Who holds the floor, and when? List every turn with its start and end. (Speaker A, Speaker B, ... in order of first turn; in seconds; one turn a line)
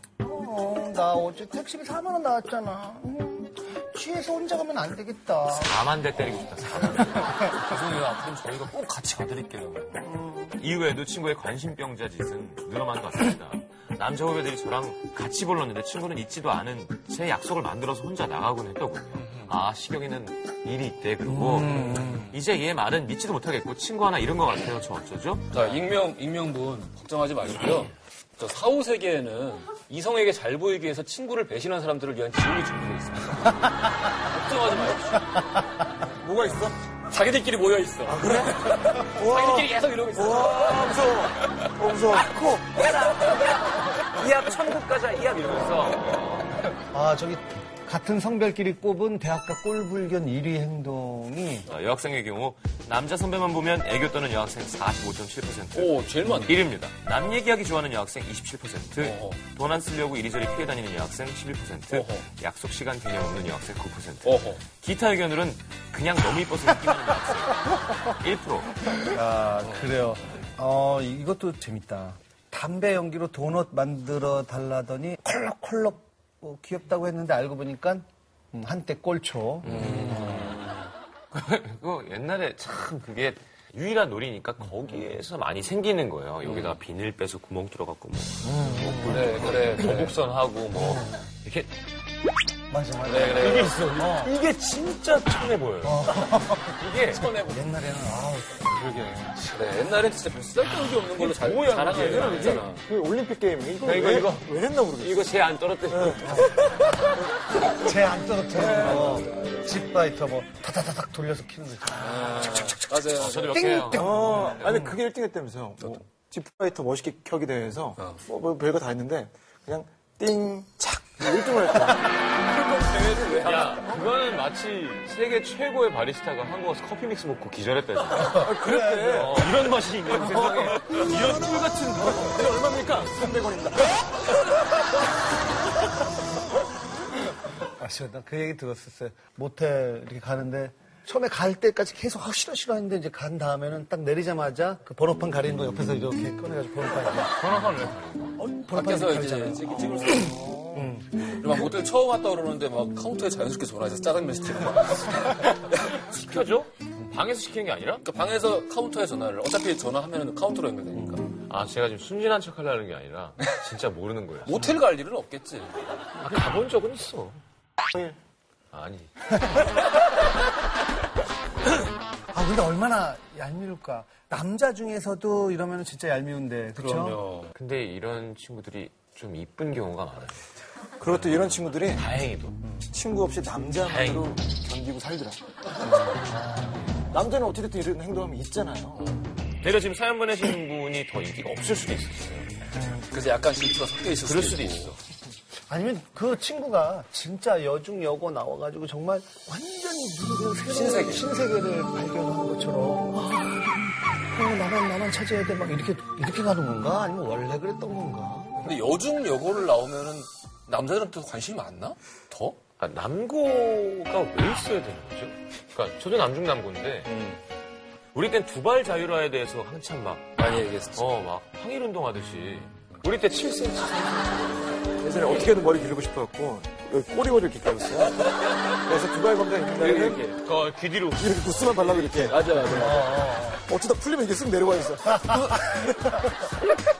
Speaker A: 0.2-5.8
Speaker B: 5.5-7.6
Speaker C: 7.6-10.0
Speaker A: 10.0-10.6
Speaker B: 10.5-25.8
Speaker C: 19.2-19.5
Speaker A: 21.3-22.3
Speaker C: 21.9-22.1
Speaker C: 25.5-35.5
Speaker D: 36.2-36.8
Speaker C: 37.0-41.6
Speaker D: 38.1-42.5
Speaker B: 42.1-46.7
Speaker A: 46.9-51.7
Speaker B: 51.6-68.8
Speaker C: 55.7-56.7
Speaker C: 59.0-59.4
Speaker C: 61.9-62.2
Speaker C: 64.2-64.6
Speaker A: 69.0-80.6
Speaker C: 79.6-80.9
Speaker B: 81.3-91.7
Speaker C: 86.5-86.8
Speaker A: 88.4-90.0
Speaker C: 89.0-90.2
Speaker A: 90.7-91.2
Speaker A: 92.7-94.3
Speaker C: 93.0-94.0
Speaker B: 93.4-97.3
Speaker A: 95.8-96.8
Speaker C: 97.0-97.6
Speaker A: 97.3-98.8
Speaker D: 98.7-99.5
Speaker C: 99.5-102.8
Speaker B: 101.2-102.7
Speaker D: 101.9-105.4
Speaker B: 103.8-106.9
Speaker D: 105.9-106.3
Speaker A: 106.2-107.1
Speaker A: 107.7-112.8
Speaker C: 108.6-109.3
Speaker C: 112.0-113.7
Speaker B: 113.2-114.9
Speaker A: 113.5-114.6
Speaker D: 113.9-122.2
Speaker C: 122.3-124.0
Speaker B: 123.3-132.2
Speaker A: 128.2-129.5
Speaker D: 128.3-129.5
Speaker A: 130.2-131.3
Speaker D: 130.3-134.3
Speaker A: 137.6-147.4
Speaker B: 147.3-148.4
Speaker A: 148.4-151.2
Speaker C: 148.7-156.1
Speaker B: 156.0-158.1
Speaker C: 158.0-161.3
Speaker B: 161.4-164.7
Speaker C: 164.5-165.8
Speaker B: 166.2-167.4
Speaker D: 167.9-168.2
Speaker B: 168.7-169.6
Speaker A: 172.3-177.2
Speaker C: 176.8-177.5
Speaker B: 177.5-180.5
Speaker D: 181.0-182.1
Speaker B: 181.0-182.6
Speaker D: 182.9-185.4
Speaker B: 183.8-184.3
Speaker A: 186.2-186.8
Speaker D: 187.1-189.0
Speaker C: 189.0-189.3
Speaker B: 189.6-192.5
Speaker A: 192.8-193.0
Speaker C: 193.1-195.0
Speaker B: 194.2-195.0
Speaker A: 195.7-208.6
Speaker C: 200.7-201.3
Speaker C: 208.6-212.6
Speaker B: 212.8-217.1
Speaker C: 217.1-217.4
Speaker B: 218.1-220.4
Speaker C: 220.4-221.1
Speaker B: 220.9-224.7
Speaker D: 225.0-230.3
Speaker C: 229.8-230.4
Speaker B: 230.1-231.7
Speaker D: 231.2-232.9
Speaker C: 232.1-233.4
Speaker A: 232.6-233.7
Speaker D: 233.5-236.3
Speaker A: 235.1-235.6